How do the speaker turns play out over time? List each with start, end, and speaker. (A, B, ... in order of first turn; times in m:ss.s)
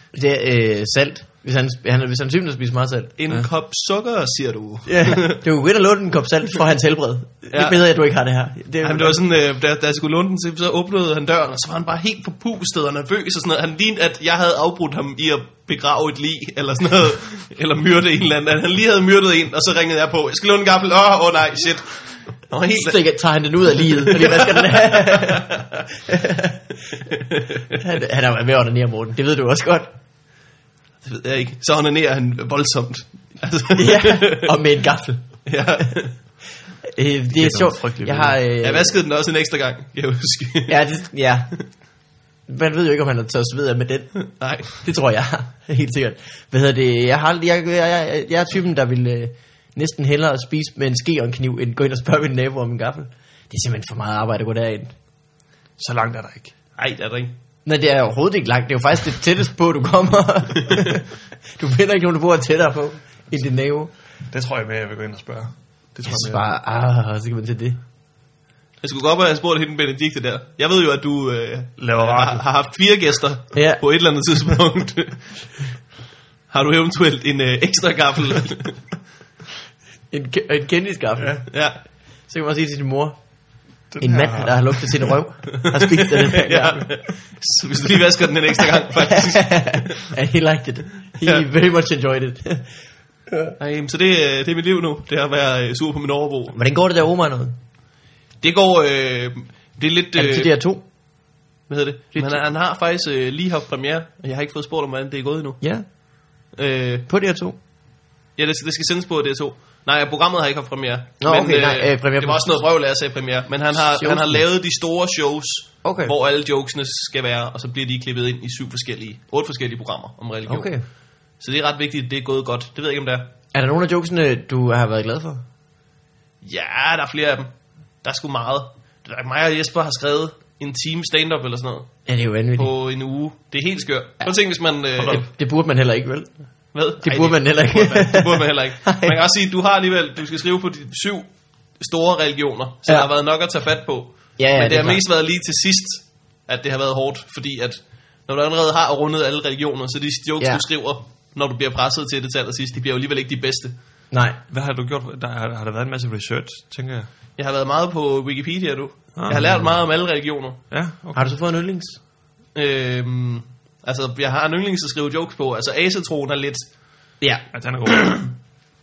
0:00.1-0:03.1 A
0:03.2-0:05.4 B
0:04.9-0:09.2 A
0:07.5-0:07.8 B
0:08.8-0:23.1 B
0:22.7-0:25.5 A
0:23.8-0:25.6 B
0:26.1-0:26.6 A
0:27.7-0:29.9 A
0:31.0-0:34.6 B
0:33.8-0:35.5 A
0:35.5-0:36.2 B
0:36.9-0:39.0 A
0:37.3-0:38.4 C
0:38.6-0:40.9 B
0:40.7-0:41.6 A
0:42.5-0:54.9 A
0:44.2-0:44.8 B
0:55.8-0:56.5 C
0:56.8-0:57.4 B
0:57.6-1:03.9 A
1:04.3-1:06.4 C
1:06.1-1:07.8 A
1:08.8-1:15.6 B
1:11.8-1:12.5 C
1:13.5-1:13.8 A
1:16.5-1:18.8 B
1:20.1-1:21.6 A
1:21.2-1:21.4 C
1:21.5-1:21.8 B
1:22.3-1:23.2 A
1:23.9-1:25.1 C
1:24.0-1:26.9 A
1:25.6-1:30.0 B
1:29.1-1:32.7 A
1:33.6-1:36.6 B
1:36.5-1:37.6 A
1:38.4-1:40.5 B
1:40.1-1:40.8 A
1:41.7-1:45.6 B
1:42.1-1:42.4 A
1:45.6-1:45.9 A
1:46.6-1:47.1 B
1:47.1-1:47.6 A
1:48.4-2:00.7 B
1:51.2-1:52.4 A
1:53.8-1:54.4 A
1:55.8-1:56.1 A
2:00.5-2:00.8 A
2:01.4-2:03.3 B
2:03.5-2:05.4 A
2:06.4-2:07.5 B
2:08.0-2:11.9 B
2:12.1-2:12.7 A
2:12.6-2:15.3 B
2:15.0-2:16.3 A
2:16.7-2:33.7 B
2:17.0-2:19.2 A
2:24.4-2:25.0 A
2:30.4-2:30.6 A
2:34.1-2:34.4 A
2:34.5-2:37.1 C
2:37.4-2:40.6 B
2:39.2-2:39.7 C
2:40.7-2:41.3 C
2:41.2-2:42.0 A
2:42.5-2:46.7 B
2:47.2-2:47.5 A
2:47.5-2:48.2 C
2:47.9-2:48.3 B